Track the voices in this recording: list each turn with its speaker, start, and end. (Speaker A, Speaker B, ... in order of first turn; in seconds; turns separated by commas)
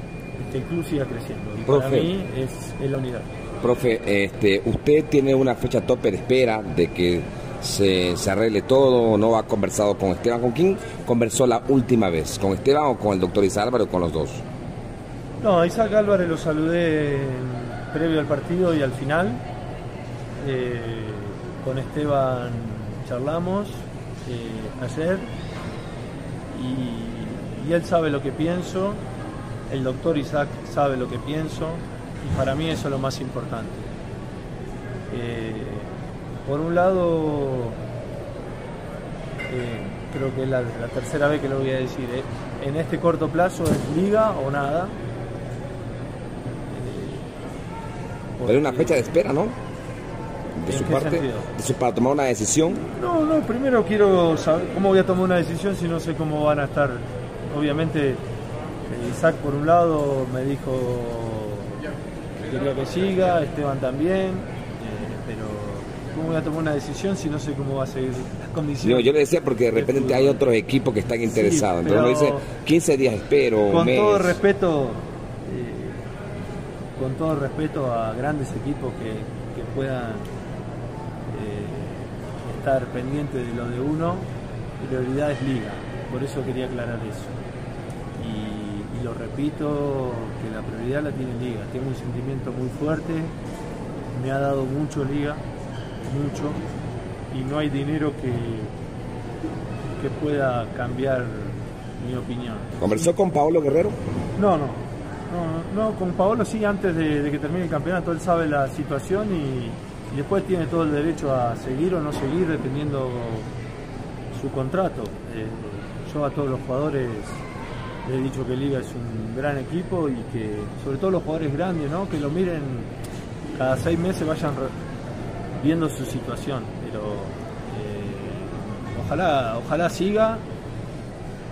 Speaker A: 0.4-3.3, Speaker B: 1.7-2.1, Speaker B: 3.6-14.4, Speaker A: 15.4-19.4, Speaker A: 20.4-25.3, Speaker A: 26.5-29.0, Speaker A: 29.7-33.9, Speaker A: 35.1-35.9, Speaker A: 36.4-37.8, Speaker A: 39.5-44.9, Speaker A: 46.7-47.3, Speaker A: 48.4-49.2, Speaker B: 48.5-49.5, Speaker B: 50.6-52.8, Speaker A: 50.7-51.5, Speaker A: 52.8-58.2, Speaker A: 58.9-61.8, Speaker A: 62.4-70.5, Speaker B: 68.8-74.4, Speaker A: 71.3-72.5, Speaker A: 73.7-76.0, Speaker A: 77.0-80.3, Speaker A: 81.3-84.3, Speaker A: 84.8-87.3, Speaker A: 88.2-93.3, Speaker A: 94.1-95.4, Speaker A: 96.1-96.6, Speaker A: 97.3-98.7, Speaker A: 99.9-103.1, Speaker B: 102.8-104.0, Speaker A: 104.3-113.5, Speaker A: 114.3-117.4, Speaker A: 118.0-122.9, Speaker A: 123.5-124.7, Speaker A: 125.6-130.4